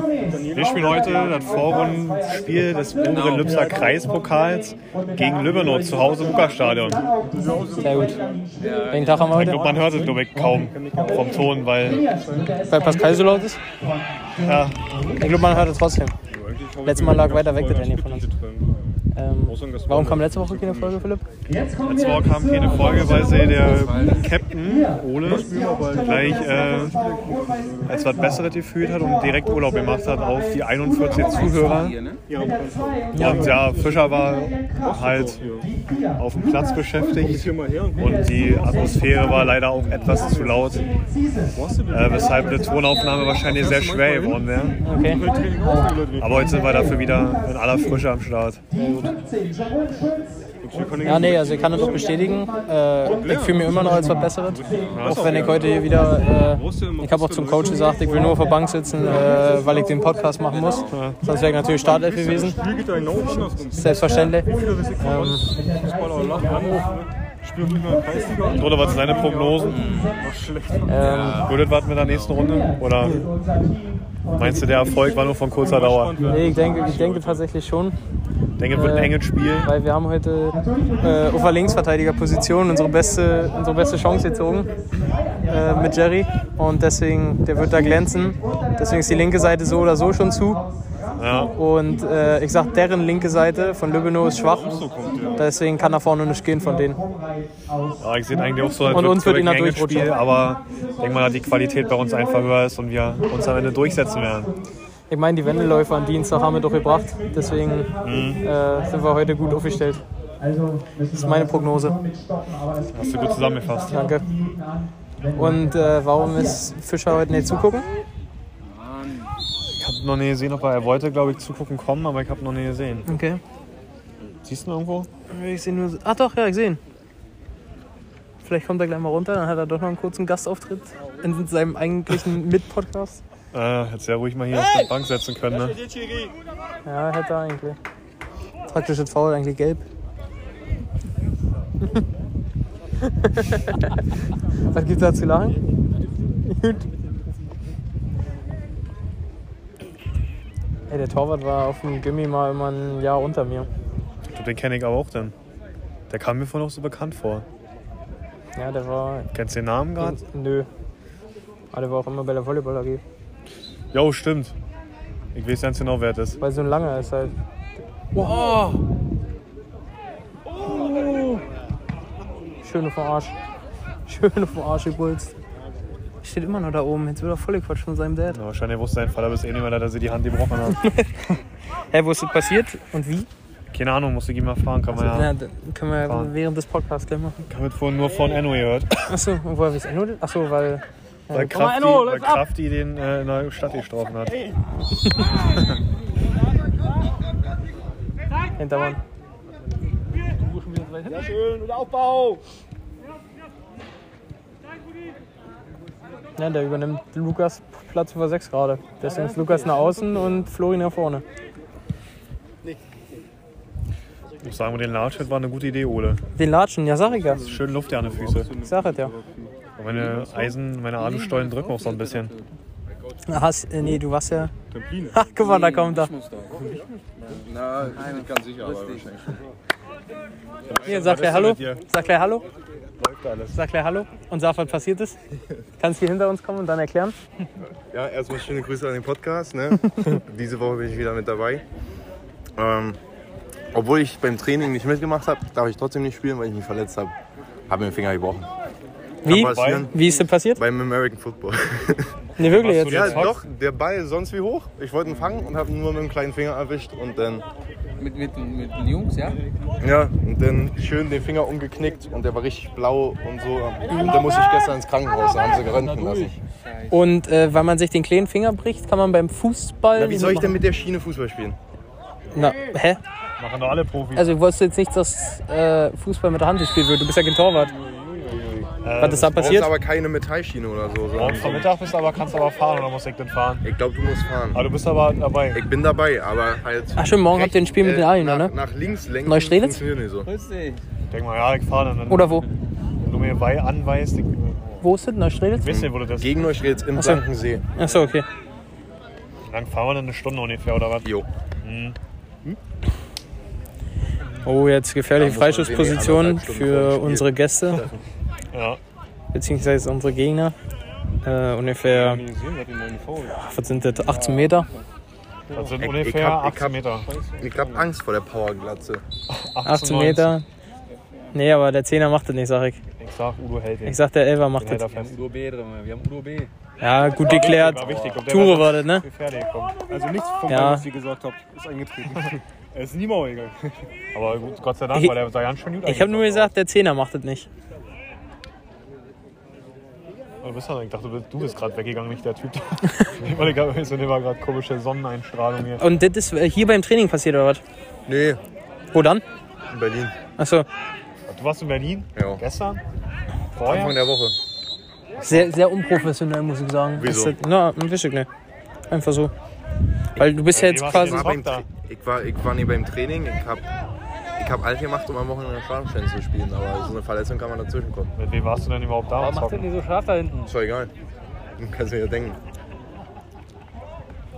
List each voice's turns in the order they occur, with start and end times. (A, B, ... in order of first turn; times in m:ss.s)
0:00.2-0:02.2 A
0:00.5-0:07.1 B
0:03.0-0:03.8 A
0:03.1-0:03.7 C
0:05.5-0:08.6 A
0:07.8-0:08.2 D
0:08.6-0:09.7 C
0:08.9-0:09.7 D
0:09.3-0:12.1 B
0:09.4-0:12.7 A
0:12.6-0:13.6 D
0:14.3-0:15.2 B
0:15.1-0:16.2 D
0:16.3-0:18.8 A
0:16.8-0:18.3 D
0:19.2-0:21.3 D
0:19.4-0:21.1 A
0:21.7-0:27.0 B
0:22.8-0:24.3 C
0:25.2-0:28.0 A
0:27.8-0:32.0 B
0:31.1-0:32.2 C
0:32.3-0:35.8 A
0:33.1-0:33.5 D
0:33.2-0:35.6 B
0:36.1-0:41.0 B
0:37.3-0:41.0 A
0:41.5-0:46.6 A
0:41.9-0:44.8 B
0:44.8-0:45.3 D
0:46.2-0:48.7 B
0:48.8-0:49.8 A
0:50.6-0:52.5 A
0:51.0-1:02.6 D
0:53.2-0:59.9 A
0:54.9-0:55.5 B
1:00.5-1:01.0 C
1:00.9-1:01.2 B
1:01.6-1:11.2 A
1:03.7-1:05.5 D
1:06.6-1:06.8 D
1:08.5-1:10.0 B
1:09.7-1:10.2 C
1:10.9-1:11.5 D
1:10.9-1:12.5 C
1:11.4-1:13.4 B
1:14.3-1:16.4 B
1:15.5-1:17.5 A
1:16.3-1:18.0 D
1:18.6-1:19.7 B
1:18.7-1:24.9 D
1:25.4-1:30.7 D
1:31.2-1:31.6 B
1:31.4-1:34.8 D
1:34.4-1:35.5 A
1:35.3-1:37.0 D
1:38.0-1:44.6 B
1:38.9-1:40.2 D
1:45.1-1:50.0 D
1:48.0-1:48.5 B
1:51.0-1:52.1 D
1:52.9-1:54.2 B
1:53.9-1:54.3 D
1:55.2-1:57.9 D
1:59.8-2:03.1 B
2:03.1-2:03.4 D
2:04.4-2:05.1 B
2:05.3-2:06.8 D
2:08.4-2:13.2 D
2:13.5-2:15.8 B
2:16.9-2:17.8 D
2:18.7-2:19.8 D
2:23.0-2:24.0 D
2:24.7-2:25.6 D
2:26.5-2:26.9 D
2:30.9-2:33.7 D
2:34.3-2:35.3 B
2:36.1-2:37.5 B
2:38.6-2:39.3 D
2:39.3-2:40.2 B
2:40.0-2:40.7 D
2:41.7-2:43.0 D
2:43.9-2:44.6 B
2:45.3-2:46.4 B
2:46.4-2:47.3 D
2:48.1-2:48.8 D
2:52.6-2:53.4 D
2:54.1-2:55.3 D
2:56.2-2:58.4 D
2:58.3-3:01.3 B
3:00.8-3:01.1 D
3:01.9-3:03.3 D
3:03.7-3:05.3 B
3:04.9-3:07.5 D
3:06.0-3:06.3 B
3:07.5-3:09.2 B
3:09.1-3:11.8 D
3:11.3-3:14.4 B
3:11.6-3:12.4 C
3:18.6-3:19.0 D
3:20.3-3:21.6 C
3:26.4-3:31.2 D
3:29.4-3:29.8 C
3:34.4-3:36.2 B
3:36.4-3:37.4 D
3:37.1-3:40.5 A
3:37.4-3:38.5 B
3:38.6-3:39.1 D
3:39.8-3:42.3 B
3:41.0-3:42.5 C
3:43.3-3:44.5 D
3:44.7-3:45.3 A
3:45.1-3:46.1 D
3:45.4-3:46.5 C
3:47.5-3:49.4 E
3:47.8-3:49.1 C
3:50.7-3:51.8 B
3:50.8-3:52.4 D
3:53.0-3:53.6 B
3:53.5-3:55.2 D
3:55.8-3:57.2 D
3:57.9-4:01.6 E
4:02.6-4:03.0 E
4:03.7-4:07.1 E
4:07.7-4:08.5 E
4:09.2-4:10.6 D
4:09.2-4:09.9 B
4:09.2-4:10.0 E
4:10.6-4:12.1 E
4:12.4-4:13.2 D
4:12.4-4:13.4 B
4:12.9-4:17.4 E
4:18.0-4:19.4 C
4:19.8-4:26.4 E
4:23.9-4:24.2 D
4:25.7-4:27.0 C
4:26.9-4:30.6 D
4:29.9-4:31.6 E
4:32.3-4:33.0 D
4:33.4-4:34.3 B
4:34.2-4:37.7 D
4:37.7-4:38.7 A
4:38.8-4:39.7 B
4:39.0-4:39.7 D
4:39.4-4:41.7 E
4:41.2-4:43.6 B
4:43.6-4:44.7 E
4:44.5-4:45.6 B
4:45.5-4:50.3 E
4:47.0-4:48.5 D
4:49.3-4:49.8 D
4:50.2-4:50.8 C
4:51.1-4:52.5 B
4:52.1-4:52.5 D
4:53.0-4:54.7 B
4:54.8-4:55.8 D
4:55.5-4:56.5 B
4:55.7-4:57.7 E
4:57.0-4:58.3 D
4:59.5-5:01.1 B
5:01.6-5:02.0 B
5:04.4-5:07.8 D
5:05.2-5:08.0 E
5:08.5-5:08.8 B
5:09.3-5:10.6 D
5:11.2-5:12.2 D
5:11.9-5:14.8 A
5:13.3-5:14.7 D
5:15.5-5:15.8 A
5:15.5-5:17.1 B
5:15.8-5:16.8 E
5:17.0-5:17.9 A
5:17.4-5:19.0 E
5:19.3-5:20.3 B
5:19.6-5:20.4 D
5:21.3-5:22.8 D
5:23.0-5:24.0 B
5:23.9-5:24.8 D
5:24.6-5:25.2 B
5:24.9-5:26.5 C
5:26.8-5:29.1 D
5:27.2-5:29.9 B
5:27.6-5:28.2 C
5:29.9-5:33.8 A
5:30.5-5:30.9 D
5:34.1-5:36.5 B
5:35.8-5:37.5 D
5:40.4-5:45.8 B
5:45.8-5:47.6 D
5:48.1-5:48.4 E
5:48.9-5:49.2 D
5:49.7-5:50.2 E
5:50.4-5:50.7 D
5:51.3-5:52.8 B
5:52.2-5:52.4 E
5:53.6-5:54.0 B
5:53.6-5:54.4 E
5:55.2-5:55.5 B
5:55.2-5:58.3 D
5:57.0-5:57.4 E
5:58.9-5:59.3 D
6:00.2-6:01.3 D
6:00.5-6:01.7 B
6:00.8-6:03.7 E
6:04.4-6:08.1 E
6:08.2-6:09.7 B
6:09.1-6:10.5 C
6:10.4-6:10.9 E
6:11.6-6:12.4 E